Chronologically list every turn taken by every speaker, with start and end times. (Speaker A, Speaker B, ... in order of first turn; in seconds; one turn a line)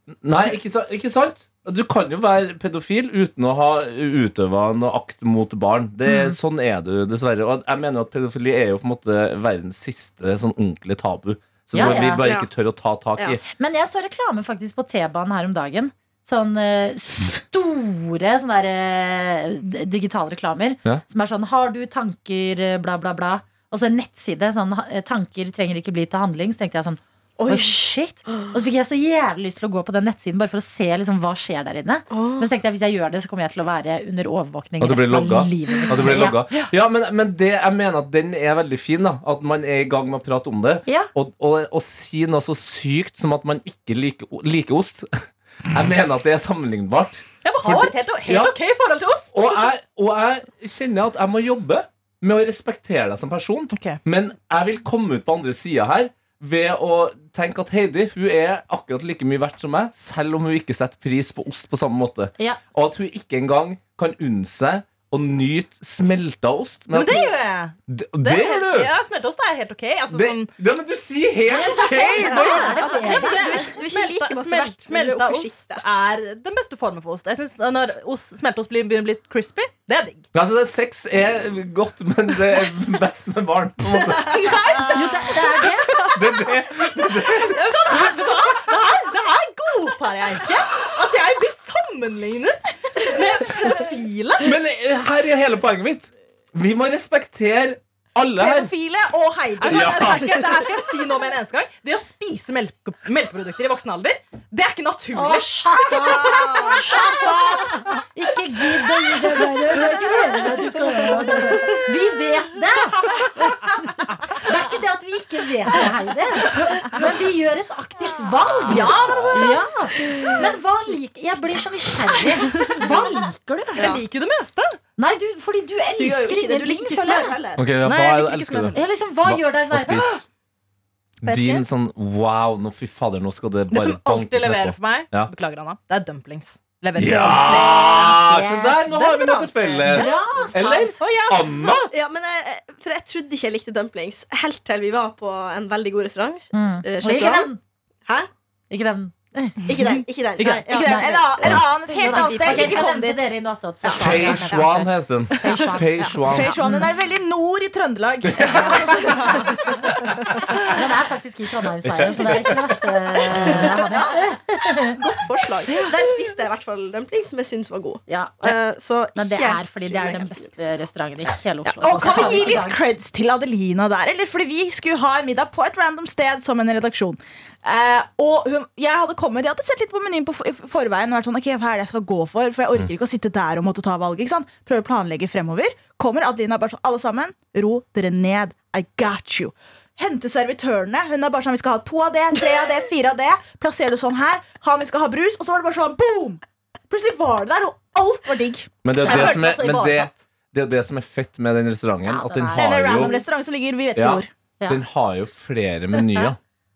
Speaker A: 0.2-13.4
Speaker B: 6.1-6.4
Speaker B: 11.7-12.2
Speaker C: 12.2-12.5
Speaker B: 13.5-36.7
Speaker C: 27.4-27.7
Speaker C: 32.1-32.5
Speaker A: 34.8-45.1
Speaker A: 45.7-48.5
Speaker D: 47.4-49.7
Speaker A: 49.3-67.3
Speaker D: 53.7-54.0
Speaker D: 66.9-70.5
Speaker A: 67.9-68.9
Speaker A: 70.1-72.8
Speaker B: 71.5-73.7
Speaker C: 72.3-75.8
Speaker D: 72.8-80.3
Speaker A: 80.3-84.6
Speaker D: 84.5-84.9
Speaker E: 84.5-84.9
Speaker B: 84.8-86.0
Speaker A: 86.0-88.0
Speaker D: 87.0-94.5
Speaker A: 94.4-98.7
Speaker E: 98.4-100.2
Speaker D: 99.6-106.6
Speaker A: 99.7-100.3
Speaker B: 105.1-124.0
Speaker C: 106.2-106.8
Speaker D: 118.7-119.6
Speaker D: 122.8-123.1
Speaker D: 123.8-124.8
Speaker B: 125.0-127.4
Speaker C: 126.0-127.6
Speaker A: 127.6-130.2
Speaker D: 127.8-128.8
Speaker B: 128.7-130.2
Speaker A: 131.2-135.3
Speaker D: 131.2-131.6
Speaker D: 133.7-138.2
Speaker A: 137.0-141.9
Speaker B: 137.5-139.1
Speaker D: 138.9-140.2
Speaker B: 139.8-141.0
Speaker D: 141.0-141.9
Speaker C: 141.9-147.5
Speaker B: 146.5-147.6
Speaker B: 148.7-149.7
Speaker C: 149.7-152.8
Speaker E: 150.4-153.3
Speaker B: 150.8-151.2
Speaker B: 151.9-156.9
Speaker C: 153.8-154.6
Speaker A: 153.9-156.6
Speaker E: 156.1-159.5
Speaker A: 158.3-158.7
Speaker B: 158.4-159.6
Speaker A: 160.0-160.6
Speaker B: 160.6-165.0
Speaker A: 161.8-162.7
Speaker C: 163.5-164.1
Speaker C: 164.8-170.7
Speaker B: 168.1-168.6
Speaker B: 169.1-172.8
Speaker C: 171.6-172.6
Speaker E: 171.8-198.7
Speaker A: 198.8-203.2
Speaker D: 199.0-200.2
Speaker B: 199.0-199.4
Speaker B: 202.0-203.2
Speaker E: 202.5-204.3
Speaker A: 203.9-206.4